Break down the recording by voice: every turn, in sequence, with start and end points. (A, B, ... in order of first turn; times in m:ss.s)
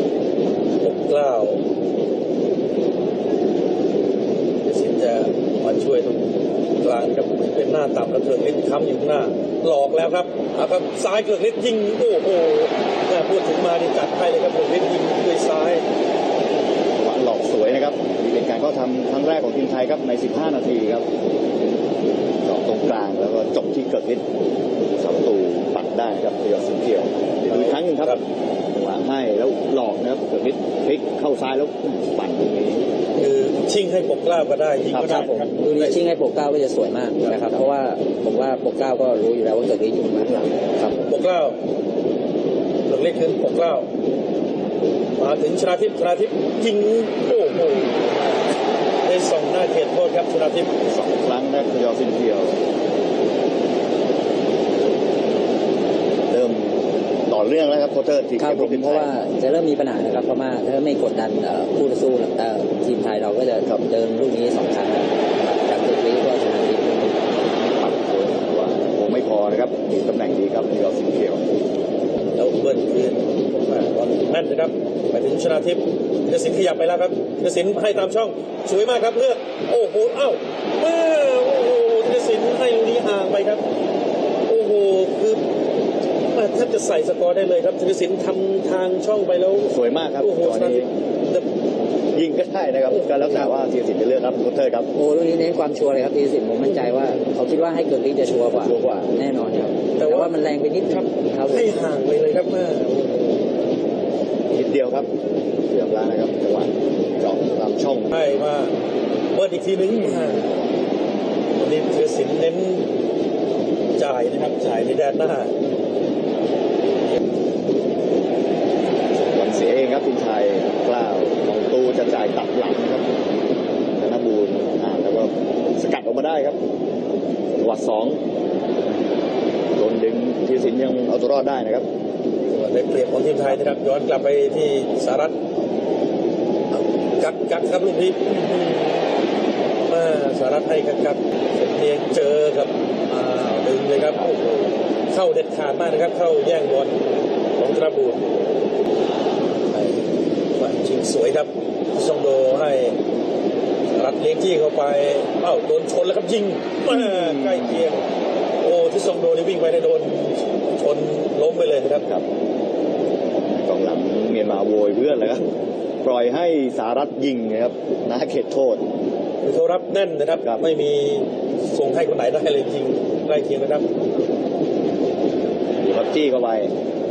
0:00.8-0:01.6 A
0:04.6-0:15.8 A
0:17.0-0:21.0 B
0:22.4-0:24.2 B
0:25.0-0:28.2 B
0:27.5-0:28.2 A
0:28.7-0:32.8 B
0:33.2-0:36.0 A
0:34.9-0:35.3 B
0:34.9-0:40.9 C
0:41.0-0:41.6 A
0:42.9-0:43.9 A
0:45.2-0:48.5 A
0:49.0-0:50.7 A
0:50.9-0:52.6 B
0:56.3-0:59.1 B
0:58.4-1:07.2 C
1:07.6-1:11.4 B
1:12.3-1:23.6 A
1:24.5-1:25.4 A
1:26.2-1:31.4 A
1:29.7-1:30.9 B
1:32.1-1:34.9 B
1:33.2-1:33.5 C
1:35.0-1:41.7 C
1:38.6-1:39.1 B
1:40.0-1:40.4 A
1:40.9-1:43.4 A
1:44.5-1:45.1 B
1:45.7-1:48.1 B
1:48.1-1:48.7 A
1:49.3-1:50.6 A
1:50.2-1:50.4 B
1:51.6-1:52.9 A
1:54.0-1:55.5 A
1:59.1-2:03.1 B
2:04.0-2:06.6 B
2:07.5-2:08.2 B
2:09.7-2:11.9 B
2:12.5-2:15.4 A
2:16.7-2:19.1 A
2:19.8-2:27.0 A
2:27.6-2:28.4 A
2:29.6-2:33.0 A
2:33.9-2:38.1 A
2:36.9-2:37.8 B
2:38.6-2:42.0 A
2:43.5-2:45.4 B
2:46.0-2:48.8 B
2:49.4-2:53.9 A
2:55.8-2:56.7 B